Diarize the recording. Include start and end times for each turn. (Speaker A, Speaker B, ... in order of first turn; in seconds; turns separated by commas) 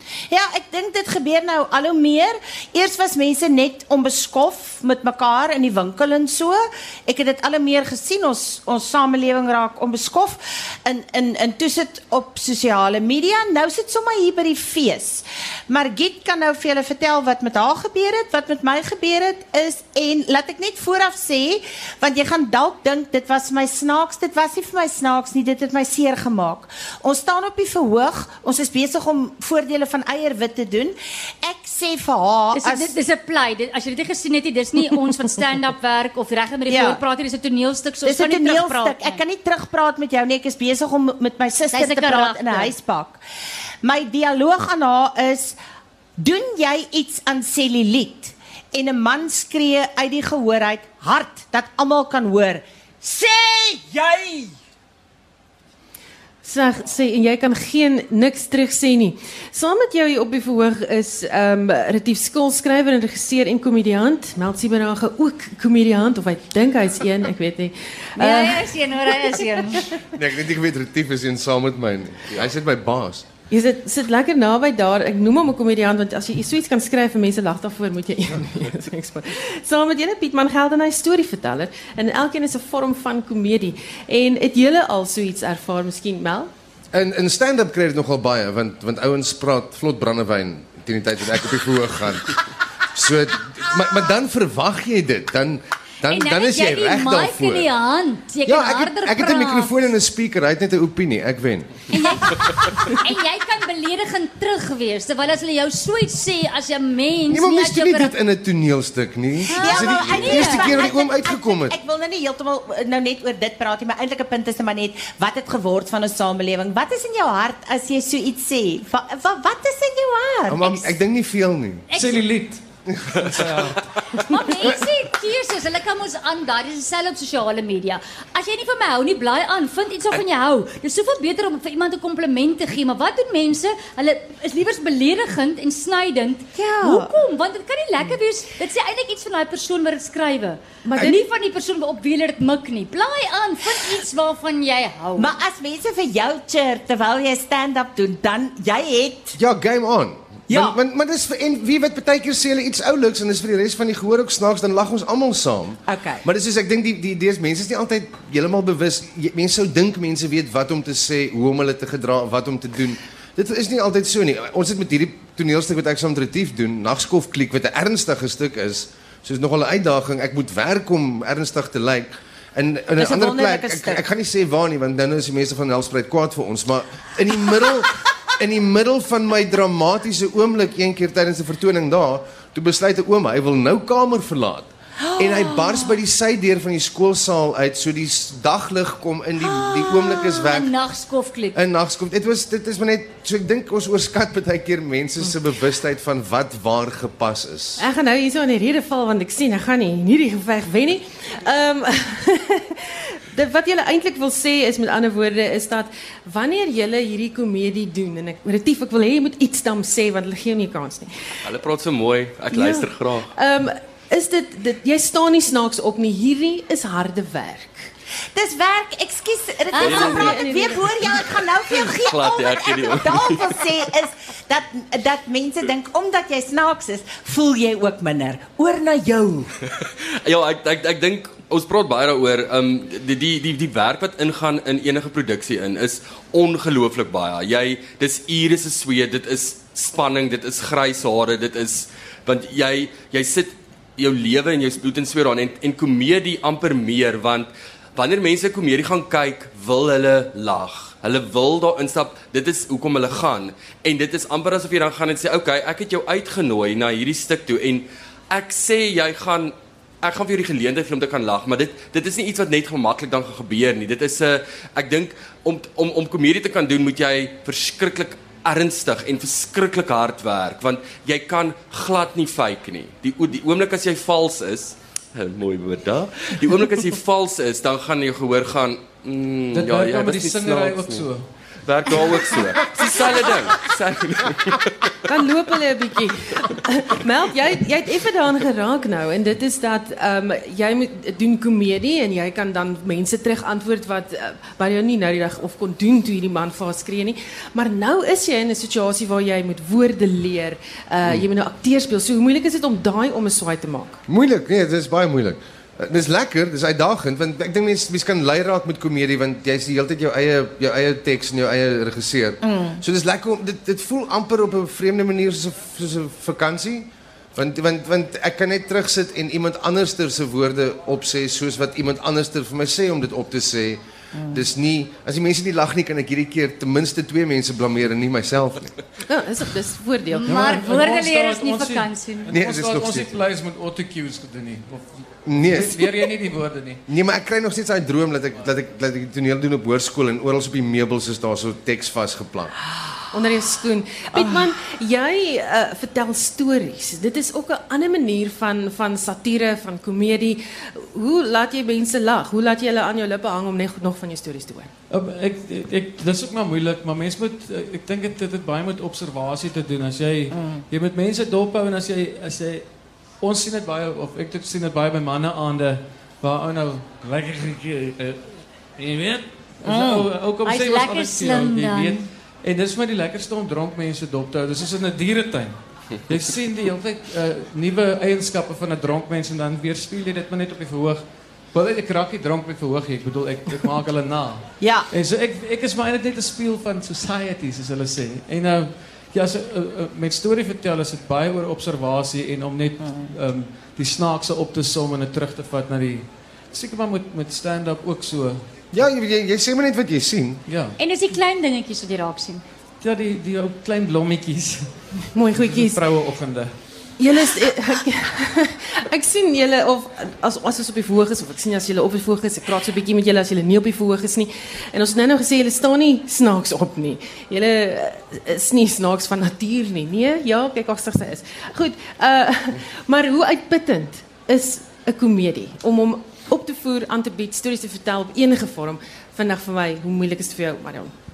Speaker A: 0.3-33.0, Speaker B: 32.5-39.2, Speaker A: 36.7-37.0, Speaker A: 38.0-43.2, Speaker B: 41.7-42.7, Speaker A: 43.8-45.6, Speaker A: 46.2-54.5, Speaker C: 56.4-68.7, Speaker B: 68.2-69.9, Speaker D: 70.1-73.3, Speaker C: 73.5-86.5, Speaker D: 86.9-92.4, Speaker D: 92.9-97.7, Speaker B: 96.0-99.8, Speaker D: 98.5-102.3, Speaker B: 101.9-108.1, Speaker D: 107.3-111.8, Speaker B: 109.5-111.0, Speaker A: 109.5-121.0, Speaker D: 120.5-121.8, Speaker B: 121.9-122.3, Speaker E: 121.9-122.6, Speaker D: 122.9-123.3, Speaker E: 123.3-123.8, Speaker B: 124.2-145.3, Speaker A: 136.6-137.1, Speaker C: 140.8-141.2, Speaker A: 141.0-141.2, Speaker A: 145.2-149.4, Speaker D: 149.3-190.7, Speaker A: 150.5-150.8, Speaker A: 155.8-156.2, Speaker A: 172.9-174.0, Speaker B: 185.2-185.8, Speaker B: 189.4-191.6, Speaker D: 191.5-197.8, Speaker C: 197.8-211.1, Speaker F: 211.4-213.3, Speaker C: 212.5-217.9, Speaker A: 218.3-229.5, Speaker C: 219.8-221.1, Speaker F: 222.0-223.6, Speaker F: 229.8-281.1, Speaker E: 279.5-281.3, Speaker F: 281.6-284.9, Speaker C: 285.1-304.0, Speaker D: 304.1-328.7, Speaker A: 312.4-312.8, Speaker C: 329.1-330.4, Speaker B: 330.1-332.3, Speaker E: 330.2-336.8, Speaker D: 332.3-333.2, Speaker D: 335.2-336.0, Speaker D: 336.9-342.5, Speaker C: 343.1-354.7, Speaker E: 354.9-398.5, Speaker A: 360.3-360.6, Speaker A: 369.6-370.1, Speaker B: 370.4-372.0, Speaker A: 384.6-384.9, Speaker A: 392.8-393.1, Speaker D: 398.7-400.4, Speaker E: 400.4-400.8, Speaker B: 400.8-402.4, Speaker E: 402.8-404.7, Speaker C: 405.1-405.8, Speaker E: 405.3-406.6, Speaker C: 407.0-430.9